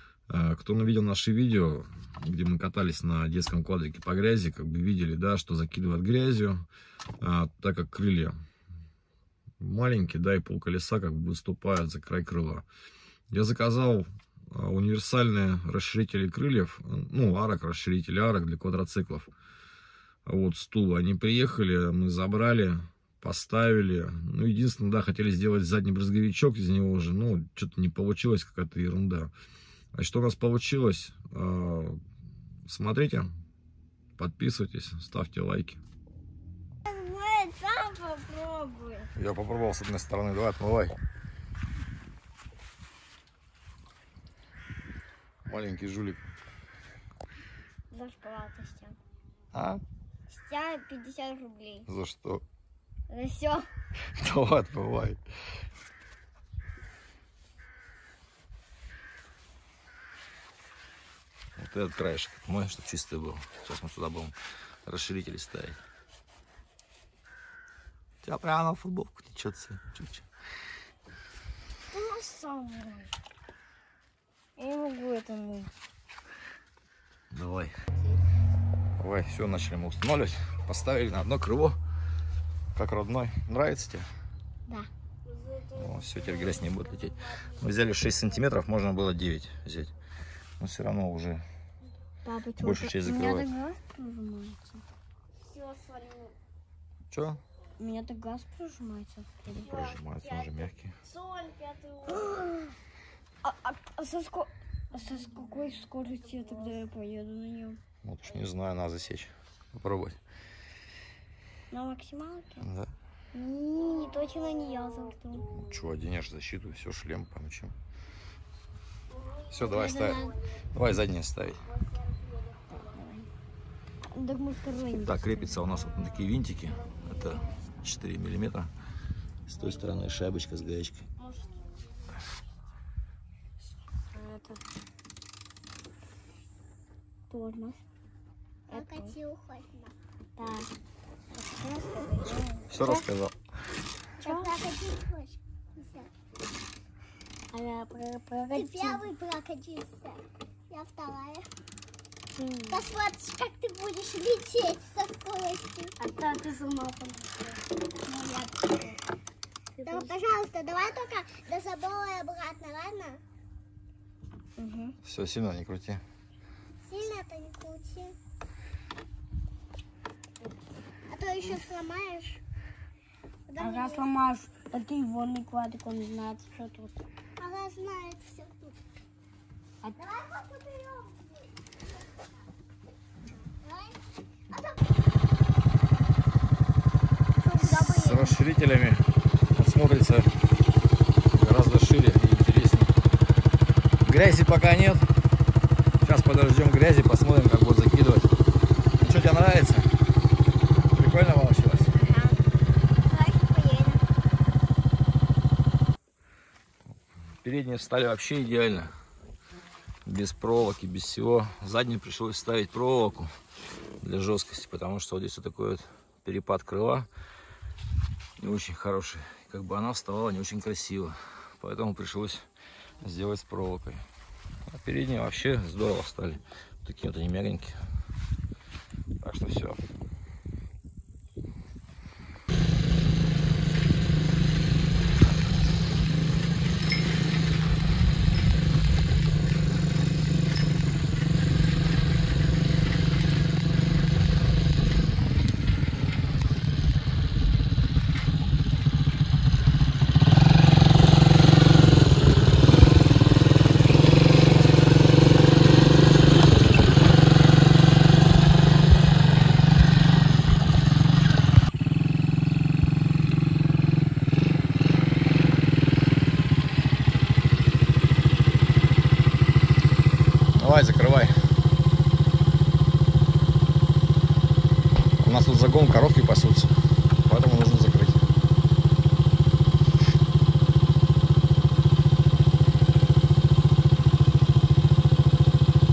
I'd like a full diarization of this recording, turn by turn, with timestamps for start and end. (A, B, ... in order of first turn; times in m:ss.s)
0:00.3-0:06.6 A
0:07.2-0:08.3 A
0:09.6-0:12.6 A
0:13.3-0:19.3 A
0:20.2-0:29.3 A
0:29.9-0:32.0 A
0:32.6-0:33.3 A
0:34.2-0:35.8 A
0:36.8-0:39.1 B
0:39.1-0:41.0 A
0:45.4-0:46.2 A
0:47.9-0:49.0 B
0:49.5-0:49.8 A
0:50.3-0:51.9 B
0:51.9-0:52.4 A
0:53.1-0:53.7 B
0:54.2-0:55.2 A
1:01.6-1:05.8 A
1:08.2-1:10.2 A
1:11.9-1:13.1 B
1:14.6-1:15.7 B
1:17.3-1:17.7 A
1:19.0-1:21.8 A
1:22.7-1:24.1 A
1:25.7-1:29.9 A
1:26.4-1:26.8 B
1:30.6-1:31.4 A
1:32.2-1:34.8 B
1:32.6-1:33.5 A
1:35.4-1:36.3 B
1:37.1-1:37.4 A
1:37.8-1:39.9 B
1:39.6-1:41.0 A
1:41.1-1:42.7 B
1:43.4-1:47.8 B
1:48.0-1:50.2 A
1:51.7-1:52.6 B
1:52.6-1:52.9 A
1:53.3-1:55.5 B
1:55.5-1:57.7 A
1:59.5-2:01.6 A
1:59.6-2:00.3 B
2:02.7-2:03.3 B
2:04.1-2:05.6 B
2:05.0-2:08.7 A
2:09.5-2:11.0 A
2:14.1-2:14.6 B
2:17.3-2:17.8 B
2:18.7-2:19.1 B
2:18.7-2:19.9 C
2:20.4-2:20.7 B
2:21.3-2:23.1 B
2:22.7-2:23.3 A
2:24.2-2:24.5 B
2:24.2-2:26.1 C
2:27.5-2:29.1 B
2:28.5-2:31.5 C
2:32.3-2:32.8 B
2:32.7-2:36.0 C
2:36.0-2:39.0 B
2:39.8-2:40.1 B
2:39.8-2:43.2 C
2:44.6-2:45.0 B
2:45.0-2:46.0 A
2:46.8-2:48.2 C
2:51.1-2:52.4 C
2:53.5-2:54.1 C
2:53.6-2:57.0 B
2:57.4-2:58.8 C
2:59.9-3:01.4 C
3:03.5-3:04.8 C
3:07.4-3:08.4 B
3:07.6-3:10.3 A
3:11.2-3:12.9 A
3:14.0-3:15.1 A
3:16.0-3:18.3 A
3:19.0-3:19.9 A
3:20.9-3:21.9 A
3:21.9-3:22.4 C
3:23.0-3:24.0 C
3:27.4-3:28.9 A
3:30.0-3:33.3 A
3:34.0-3:37.1 A
3:38.4-3:42.4 A
3:43.0-3:44.0 A
3:44.7-3:47.8 A
3:49.2-3:49.8 A
4:30.5-4:31.4 A
4:35.2-4:38.2 A